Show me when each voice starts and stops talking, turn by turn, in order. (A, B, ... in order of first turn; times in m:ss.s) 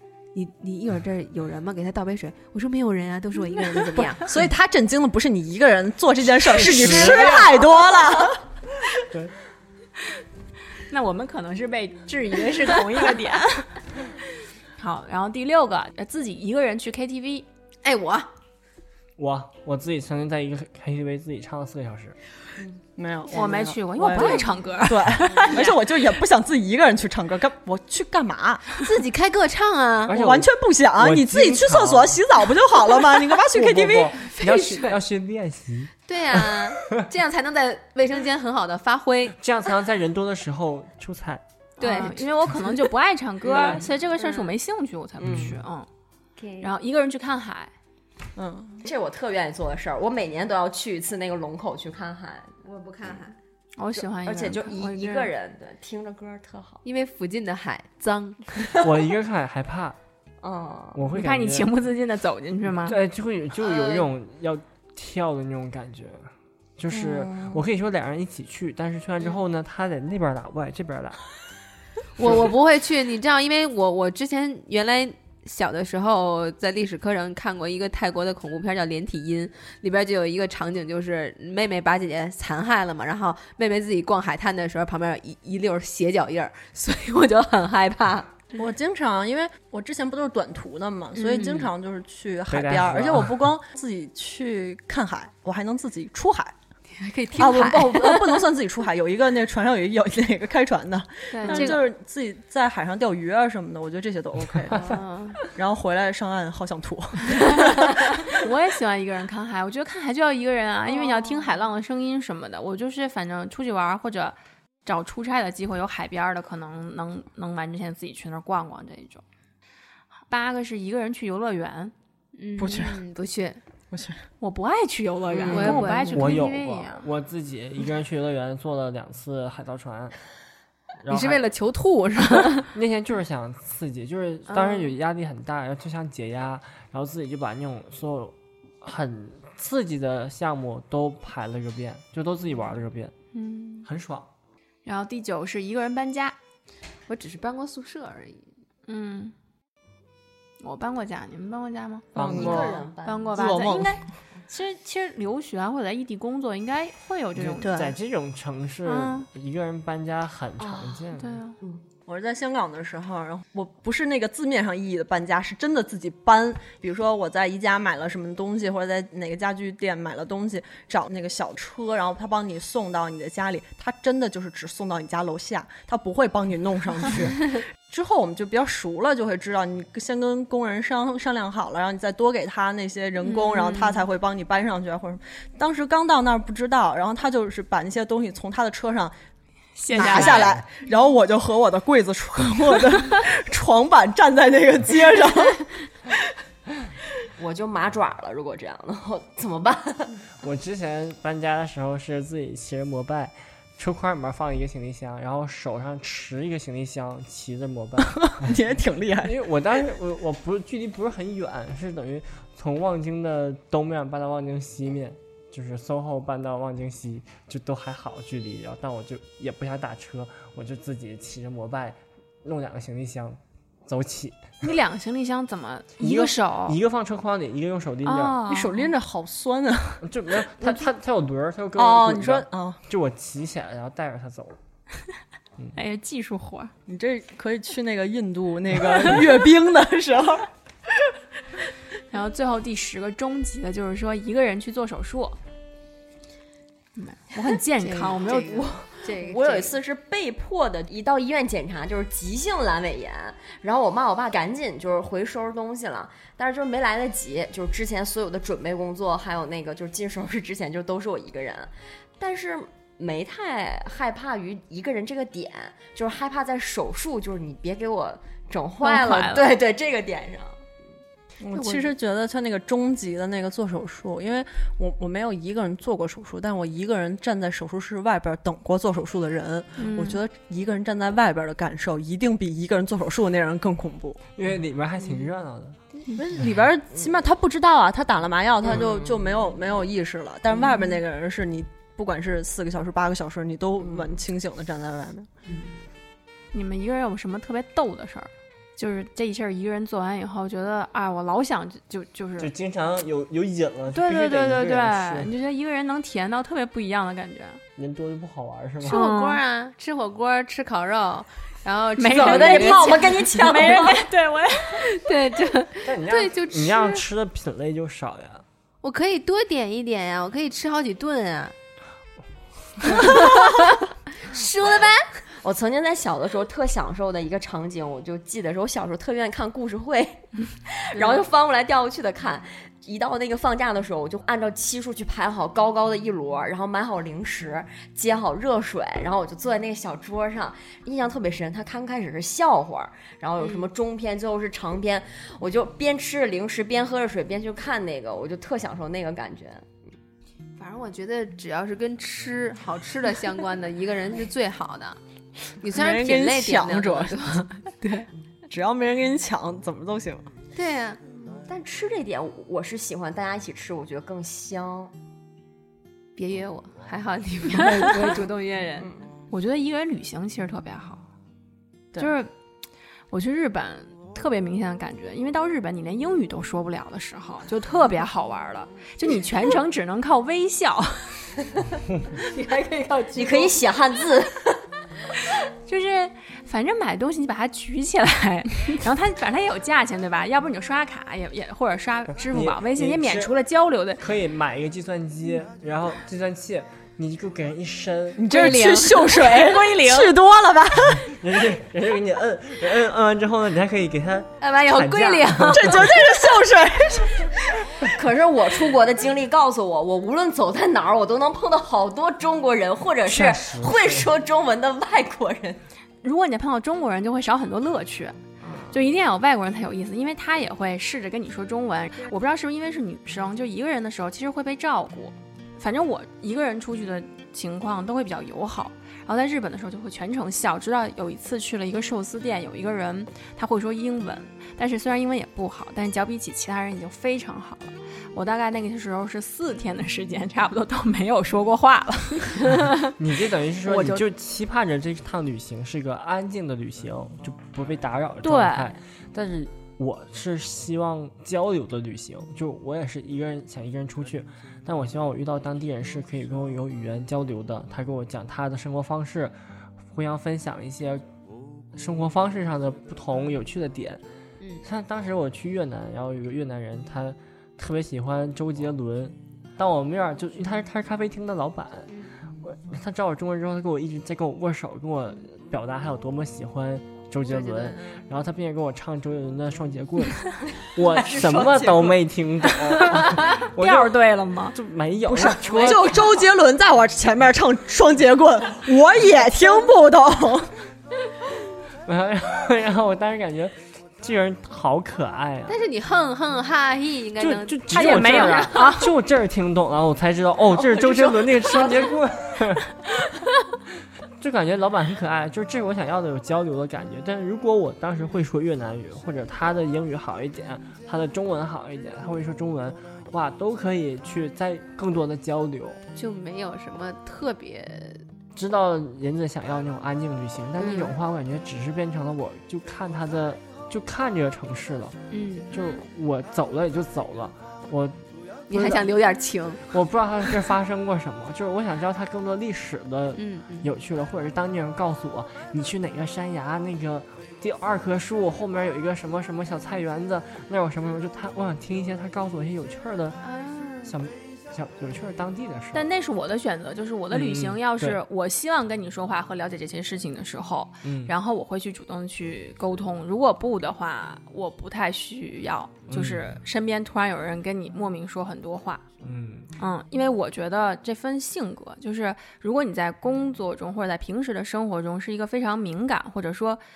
0:00.3-0:04.3 A
0:03.9-0:08.4 B
0:06.5-0:07.7 C
0:10.8-0:13.8 D
0:14.8-0:17.5 D
0:17.8-0:18.3 A
0:19.2-0:22.2 C
0:23.0-0:28.7 B
0:23.3-0:26.0 D
0:28.8-0:30.2 A
0:30.1-0:32.2 C
0:30.1-0:34.2 B
0:33.5-0:37.0 C
0:34.2-0:35.0 A
0:36.1-0:39.4 A
0:39.4-0:41.4 C
0:41.8-0:45.9 D
0:41.8-0:42.7 A
0:43.5-0:43.8 C
0:44.2-0:44.5 A
0:45.2-0:45.6 C
0:46.4-0:46.7 A
0:46.6-0:47.7 D
0:48.4-0:48.8 B
0:48.8-0:53.2 E
0:52.6-0:53.4 A
0:53.8-0:55.3 D
0:54.0-0:56.8 E
0:56.8-0:58.8 A
0:58.8-1:00.0 C
1:00.4-1:01.0 E
1:00.9-1:01.7 C
1:01.1-1:03.0 D
1:02.7-1:11.2 C
1:03.6-1:04.1 E
1:12.2-1:28.4 A
1:12.2-1:12.5 C
1:28.5-1:36.6 B
1:31.2-1:31.7 A
1:32.5-1:33.5 C
1:37.0-1:38.4 A
1:37.3-1:48.4 B
1:41.3-1:41.8 D
1:41.5-1:41.8 A
1:44.8-1:45.5 A
1:48.3-1:59.2 D
1:50.9-1:51.5 A
2:00.3-2:01.9 D
2:02.4-2:03.6 A
2:02.6-2:03.0 B
2:03.9-2:04.2 B
2:04.4-2:07.1 D
2:05.4-2:06.4 A
2:06.1-2:10.2 C
2:11.0-2:11.4 C
2:11.1-2:12.7 A
2:12.4-2:23.1 C
2:23.3-2:23.9 D
2:23.8-2:24.3 C
2:24.8-2:26.4 D
2:27.1-2:28.5 A
2:28.9-2:29.3 D
2:30.6-2:37.8 D
2:32.2-2:32.8 C
2:32.2-2:32.8 B
2:32.2-2:33.4 E
2:33.3-2:34.0 B
2:37.4-2:41.4 C
2:37.6-2:37.9 A
2:38.9-2:39.3 D
2:40.6-2:41.8 E
2:41.2-2:41.6 D
2:42.1-3:09.1 B
3:03.3-3:04.0 A
3:09.8-3:10.6 D
3:09.9-3:15.9 B
3:10.1-3:10.6 C
3:17.4-3:20.2 E
3:20.4-3:28.7 C
3:28.3-3:29.4 B
3:29.2-3:44.5 C
3:44.6-3:46.8 D
3:46.0-3:48.4 C
3:48.0-3:48.9 D
3:48.5-3:50.1 B
3:50.0-3:54.6 C
3:51.8-3:52.8 B
3:55.8-3:56.7 D
3:56.9-4:00.5 B
4:02.1-4:05.4 D
4:07.0-4:08.8 D
4:07.8-4:09.8 A
4:09.0-4:30.6 E
4:28.8-4:29.5 D
4:31.4-4:44.2 B
4:39.8-4:40.2 D
4:44.4-4:45.8 C
4:46.1-4:55.3 B
4:56.5-5:02.5 D
5:02.4-5:05.3 C
5:03.9-5:07.6 D
5:07.8-5:09.0 C
5:08.8-5:09.4 D
5:08.9-5:13.9 A
5:12.0-5:14.9 D
5:12.1-5:14.0 E
5:14.7-5:17.0 A
5:15.8-5:18.4 C
5:18.8-5:21.5 A
5:22.8-5:25.2 A
5:25.4-5:49.7 E
5:43.4-5:43.7 A
5:50.6-5:55.0 A
5:55.6-5:58.1 A
5:55.7-5:57.6 B
5:58.5-6:00.3 B
6:00.6-6:01.0 A
6:01.3-6:04.9 E
6:06.2-6:08.9 A
6:07.7-6:08.1 D
6:08.8-6:09.1 E
6:09.3-6:11.0 D
6:12.0-6:12.3 D
6:13.1-6:21.2 D
6:22.2-6:23.6 A
6:23.1-6:24.5 E
6:25.6-6:34.0 D
6:32.3-6:33.3 C
6:34.0-6:38.3 C
6:38.2-6:41.1 B
6:38.3-6:40.2 D
6:41.1-6:45.9 C
6:44.4-6:45.8 A
6:45.5-6:47.3 B
6:47.8-6:55.6 E
6:53.1-6:54.1 C
6:56.0-6:58.2 D
6:58.4-6:58.8 E
6:58.7-7:22.9 D
7:22.9-7:39.4 C
7:23.6-7:24.0 D
7:28.2-7:28.7 D
7:39.9-7:41.1 C
7:41.7-7:44.0 C
7:44.6-7:51.9 C
7:51.9-7:52.2 A
7:52.4-8:03.9 C
7:57.3-7:57.8 A
8:01.1-8:01.9 E
8:02.6-8:04.6 D
8:04.5-8:06.1 C
8:05.1-8:10.5 B
8:11.9-8:15.6 C
8:15.5-8:18.8 A
8:17.2-8:22.7 C
8:17.7-8:18.9 D
8:20.6-8:22.0 A
8:24.2-8:35.8 C
8:36.0-8:38.0 A
8:38.4-8:45.0 C
8:40.6-8:40.9 A
8:45.1-8:45.7 A
8:45.5-8:48.0 C
8:48.5-8:49.8 A
8:48.5-8:48.9 C
8:49.7-9:03.2 C
8:53.1-8:53.7 A
9:03.3-9:03.8 D
9:03.9-9:05.9 C
9:05.7-9:18.9 D
9:07.1-9:08.0 C
9:10.8-9:11.1 C
9:15.9-9:16.2 C
9:19.0-9:19.5 C
9:19.6-9:26.6 D